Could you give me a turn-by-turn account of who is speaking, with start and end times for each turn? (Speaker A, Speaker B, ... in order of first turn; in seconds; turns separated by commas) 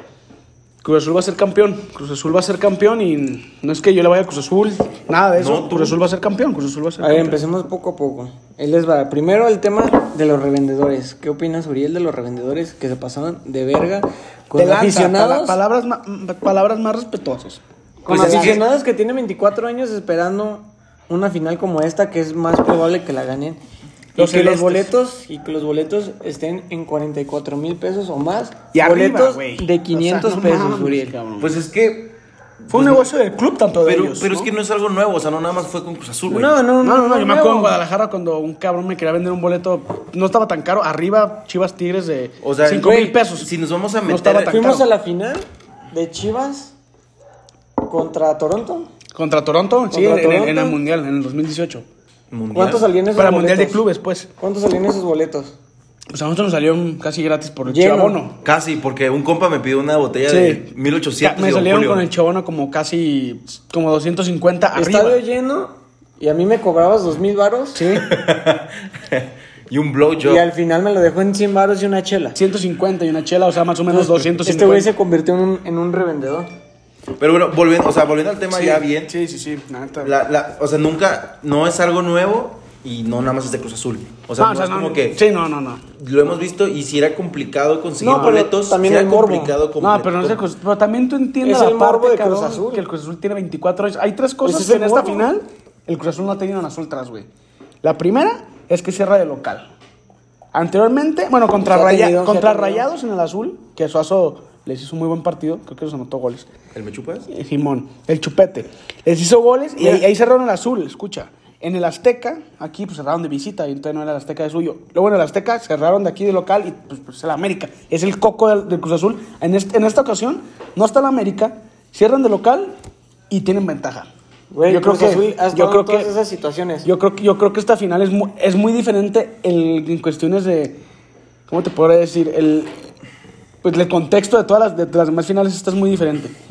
Speaker A: 0.8-7.4, Speaker B: 5.4-6.0, Speaker C: 7.0-15.6, Speaker A: 14.5-18.6, Speaker C: 18.1-23.6, Speaker B: 18.1-18.6, Speaker C: 24.2-31.1, Speaker A: 24.2-24.9, Speaker A: 28.7-31.5, Speaker B: 31.4-33.1, Speaker A: 32.7-34.5, Speaker B: 33.8-36.6, Speaker C: 36.3-37.8, Speaker A: 36.8-43.5, Speaker B: 42.4-44.7, Speaker C: 42.8-43.1, Speaker A: 44.0-44.9, Speaker C: 44.5-46.7, Speaker C: 47.9-48.9, Speaker A: 49.1-51.9, Speaker C: 49.9-50.8, Speaker B: 52.3-52.9, Speaker C: 52.5-53.8, Speaker A: 53.2-54.3, Speaker C: 54.4-55.6, Speaker A: 56.1-58.4, Speaker C: 57.6-58.2, Speaker B: 58.4-62.1, Speaker A: 60.3-60.7, Speaker A: 61.2-65.2, Speaker C: 64.8-67.8, Speaker A: 67.8-68.1, Speaker B: 68.0-70.5, Speaker C: 70.2-72.4, Speaker A: 72.3-74.9, Speaker C: 73.9-76.5, Speaker B: 77.2-79.1, Speaker A: 78.5-80.2, Speaker B: 80.0-85.2, Speaker A: 84.4-85.8, Speaker B: 85.9-90.4, Speaker A: 88.0-88.5, Speaker C: 88.0-89.6, Speaker A: 89.8-97.3, Speaker C: 91.4-92.8, Speaker C: 94.4-95.3, Speaker A: 97.8-99.7, Speaker A: 100.5-106.5, Speaker C: 101.6-102.8, Speaker B: 106.7-107.3, Speaker A: 107.3-122.8, Speaker A: 123.3-124.1, Speaker C: 124.5-126.9, Speaker A: 124.7-126.1, Speaker A: 126.8-130.8, Speaker A: 131.5-132.7, Speaker A: 133.6-136.3